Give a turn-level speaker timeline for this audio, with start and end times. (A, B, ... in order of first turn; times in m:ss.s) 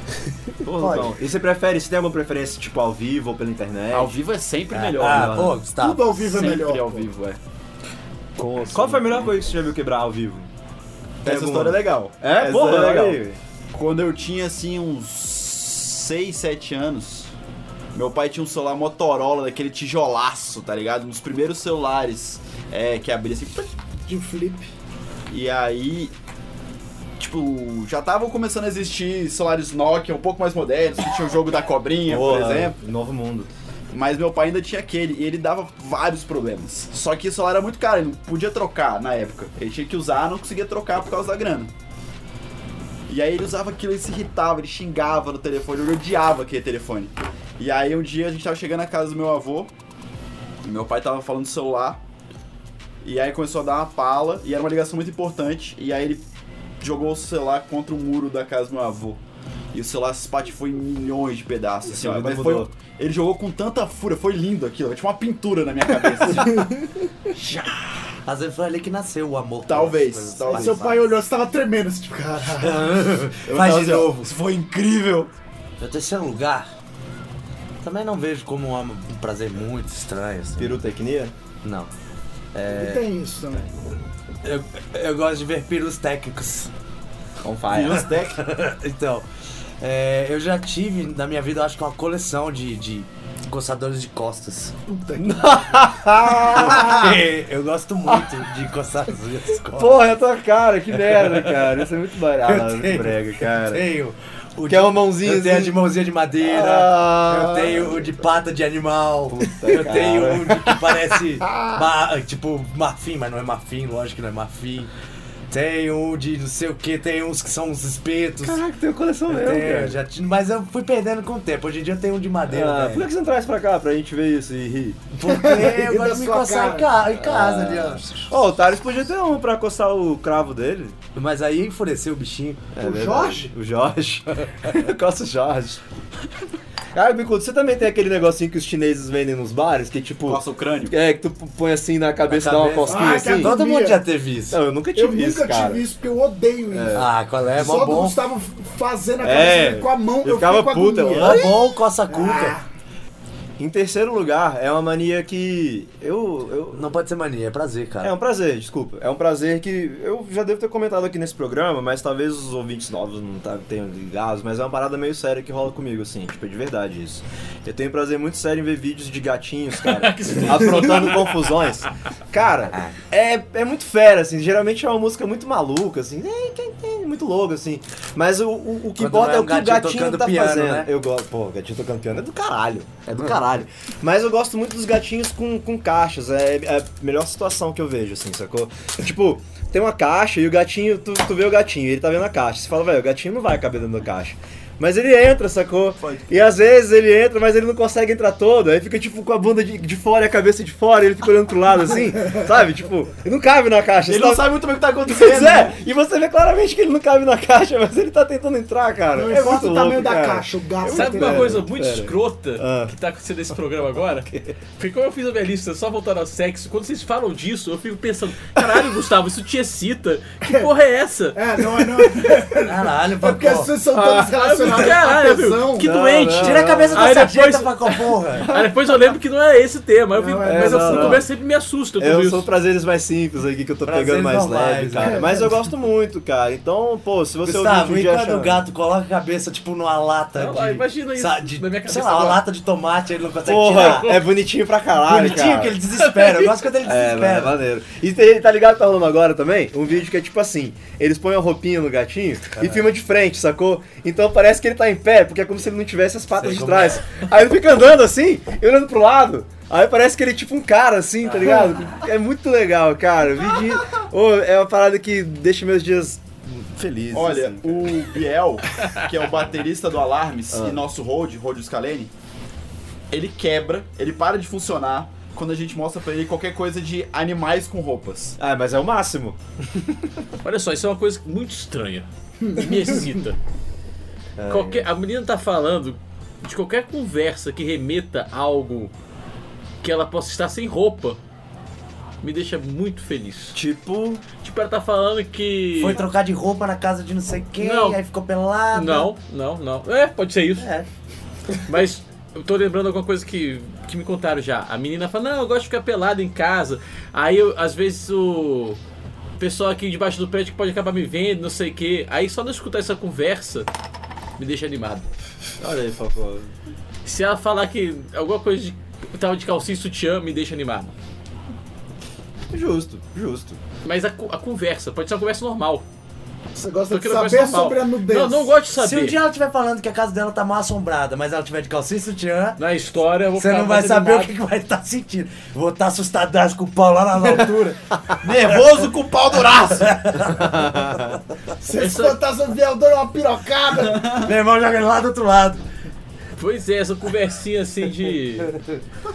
0:00.6-0:04.2 A
0:00.7-0:01.2 B
0:03.9-0:05.6 C
0:04.7-0:06.2 B
0:05.0-0:05.6 A
0:05.7-0:07.1 D
0:06.2-0:07.4 C
0:08.4-0:10.5 A
0:08.6-0:09.3 C
0:11.2-0:13.2 C
0:11.2-0:13.4 A
0:13.7-0:17.3 C
0:17.9-0:23.7 C
0:24.1-0:24.7 D
0:25.3-0:26.1 C
0:27.2-0:32.8 C
0:32.1-0:33.5 A
0:33.9-0:41.7 C
0:43.1-0:49.7 C
0:50.6-0:52.0 C
0:53.0-0:56.2 C
0:56.8-0:59.2 C
0:59.7-1:06.7 C
1:01.9-1:02.7 A
1:06.4-1:06.8 D
1:07.3-1:07.9 C
1:08.3-1:11.0 B
1:09.7-1:10.9 C
1:10.5-1:12.9 D
1:12.6-1:14.3 B
1:13.4-1:15.3 C
1:15.8-1:16.7 B
1:17.8-1:20.8 B
1:20.6-1:21.3 A
1:21.6-1:21.9 B
1:22.6-1:23.0 A
1:22.7-1:23.7 D
1:24.4-1:26.7 B
1:27.4-1:28.1 A
1:27.7-1:28.4 C
1:28.0-1:29.3 B
1:29.8-1:34.8 B
1:34.9-1:35.8 D
1:35.2-1:37.2 A
1:36.5-1:40.0 B
1:39.8-1:43.8 A
1:41.1-1:41.6 B
1:42.4-1:54.9 B
1:44.7-1:45.8 A
1:46.4-1:48.1 A
1:49.3-1:51.8 A
1:55.5-1:58.6 B
1:58.4-2:00.0 A
1:59.3-2:03.1 B
2:02.5-2:05.1 A
2:05.2-2:08.3 B
2:05.2-2:07.0 D
2:07.1-2:11.0 A
2:11.2-2:12.7 B
2:12.8-2:15.8 A
2:12.8-2:13.5 D
2:16.9-2:23.6 A
2:20.3-2:21.0 C
2:22.2-2:24.6 B
2:22.9-2:24.0 D
2:24.5-2:25.8 A
2:24.9-2:27.0 D
2:26.7-2:27.1 A
2:26.9-2:28.2 B
2:27.6-2:31.5 D
2:29.2-2:31.5 A
2:31.1-2:32.6 B
2:32.1-2:32.6 D
2:33.6-2:36.9 A
2:36.7-2:38.2 B
2:38.0-3:32.9 A
2:49.8-2:51.5 E
2:59.0-3:00.9 B
3:03.1-3:03.4 B
3:16.0-3:16.3 C
3:24.0-3:25.8 C
3:29.1-3:31.7 D
3:30.9-3:41.4 E
3:41.4-3:45.9 D
3:42.6-3:43.7 B
3:43.9-3:52.5 E
3:45.8-3:47.2 A
3:46.4-3:48.5 B
3:48.4-3:48.7 A
3:50.2-3:51.2 D
3:50.4-3:51.3 A
3:52.0-3:58.6 A
3:53.8-3:55.5 B
3:55.0-3:55.3 D
3:57.4-4:04.2 B
4:00.4-4:02.4 E
4:03.4-4:05.8 A
4:03.7-4:04.0 E
4:05.0-4:07.6 B
4:06.0-4:06.6 E
4:06.8-4:27.9 A
4:12.6-4:12.9 B
4:16.4-4:17.1 B
4:21.2-4:21.7 B
4:27.1-4:32.1 C
4:30.5-4:30.8 A
4:33.1-4:38.4 C
4:38.4-4:40.0 A
4:40.4-4:43.4 E
4:42.4-4:42.9 D
4:44.4-4:44.9 A
4:44.5-4:48.9 E
4:49.8-4:51.2 E
4:52.2-4:53.6 E
4:53.5-4:54.2 A
4:54.4-4:56.0 E
4:55.7-4:59.1 B
4:57.6-4:58.0 E
4:58.7-5:00.7 E
5:00.6-5:00.9 B
5:01.7-5:08.8 E
5:09.4-5:13.7 E
5:14.4-5:15.1 E
5:15.6-5:16.5 A
5:17.0-5:20.9 E
5:22.5-5:23.6 A
5:23.8-5:25.9 E
5:26.6-5:28.6 D
5:26.9-5:29.2 E
5:28.8-5:32.6 B
5:32.6-5:34.3 E
5:33.3-5:37.8 B
5:38.2-5:40.1 C
5:39.7-5:40.8 B
5:40.4-5:41.2 A
5:41.6-5:44.1 D
5:41.7-5:42.2 E
5:43.8-5:44.3 C
5:44.1-5:45.6 B
5:46.4-5:48.5 E